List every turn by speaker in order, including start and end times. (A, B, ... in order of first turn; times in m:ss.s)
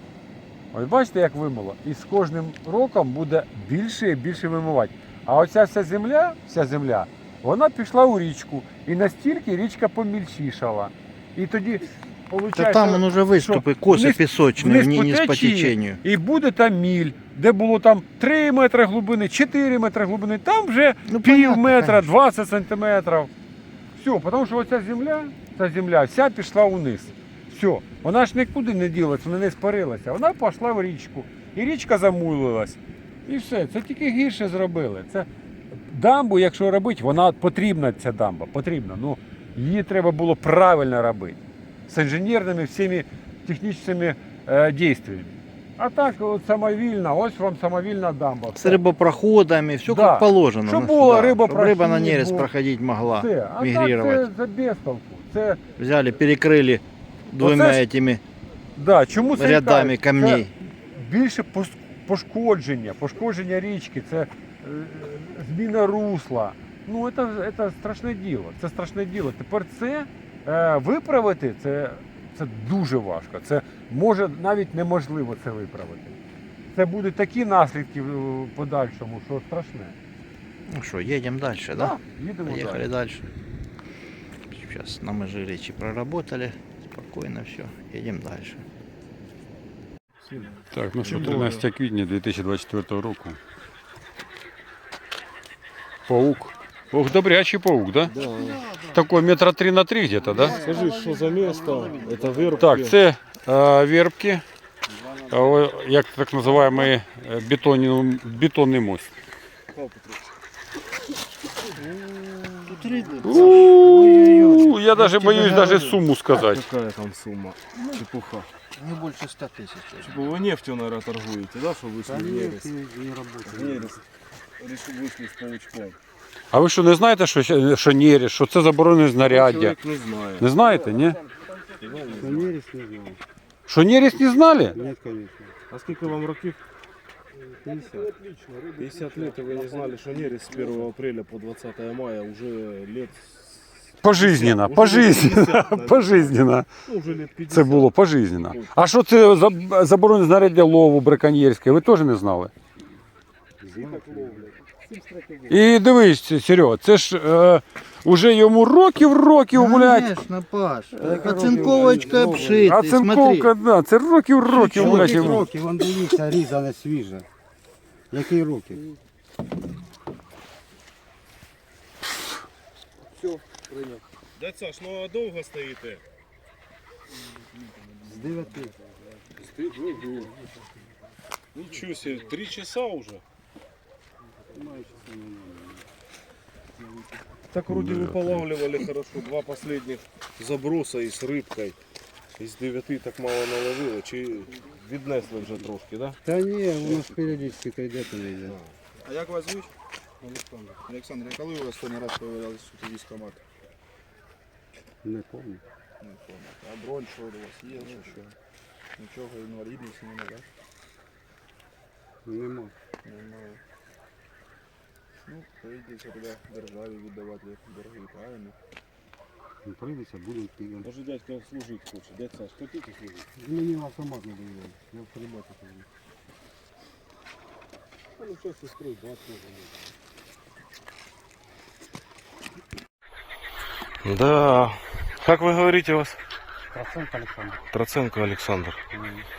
0:00.7-0:23.3 A
0:12.5-0:16.0 B
0:21.1-0:22.0 B
0:23.9-0:48.8 A
0:48.5-0:54.3 B
0:49.8-0:52.5 A
0:53.1-0:55.6 A
0:55.8-0:58.2 B
0:57.4-0:57.8 A
0:58.7-1:16.1 A
0:59.3-1:00.5 B
1:16.7-1:20.0 A
1:20.7-1:23.3 B
1:21.7-1:22.9 A
1:24.5-1:28.6 B
1:30.3-1:31.6 C
1:30.7-1:33.4 A
1:36.1-1:38.1 A
1:38.1-1:38.7 C
1:38.2-1:39.0 B
1:38.8-1:40.6 A
1:40.3-1:42.7 B
1:40.3-1:43.0 C
1:42.5-1:44.4 A
1:45.3-1:49.1 A
1:49.7-1:50.3 C
1:51.7-1:53.3 C
1:52.6-1:56.0 B
1:53.2-1:56.7 A
1:56.3-1:58.5 C
1:58.8-2:00.2 B
2:00.0-2:02.7 C
2:02.1-2:03.9 D
2:03.4-2:04.0 C
2:04.6-2:06.0 C
2:06.5-2:09.8 A
2:09.2-2:10.5 C
2:10.4-2:11.2 A
2:11.8-2:12.6 C
2:12.2-2:13.2 D
2:13.7-2:14.8 A
2:14.7-2:15.5 D
2:15.7-2:16.6 C
2:17.6-2:19.4 D
2:17.6-2:18.1 C
2:18.8-2:26.3 C
2:24.0-2:26.7 A
2:26.8-2:27.9 C
2:27.5-2:32.5 A
2:28.4-2:28.7 C
2:33.6-2:34.5 C
2:33.8-2:35.3 D
2:35.2-2:35.4 C
2:35.5-2:40.1 A
2:39.5-2:43.5 B
2:41.0-2:42.7 D
2:41.1-2:42.4 C
2:42.5-2:45.5 A
2:44.6-2:45.5 B
2:44.6-2:47.2 D
2:48.1-2:48.9 D
2:53.2-2:54.0 D
2:54.4-2:56.0 C
2:57.6-2:58.6 E
2:58.0-2:58.8 D
2:59.4-3:00.7 D
3:01.5-3:03.2 C
3:04.5-3:05.8 D
3:07.5-3:11.8 C
3:07.7-3:08.5 A
3:12.4-3:16.2 C
3:16.2-3:18.6 D
3:16.8-3:17.4 C
3:18.4-3:18.7 C
3:19.1-3:19.7 E
3:20.2-3:20.8 D
3:20.8-3:23.4 E
3:25.0-3:25.6 D
3:26.0-3:28.1 E
3:29.0-3:30.5 E
3:32.2-3:32.7 D
3:33.0-3:33.6 E
3:35.3-3:38.6 E
3:39.6-3:40.9 D
3:40.8-3:43.3 C
3:43.3-3:45.8 D
3:48.2-3:49.5 C
3:54.0-3:56.2 C
3:56.7-3:57.6 D
3:57.7-3:58.8 C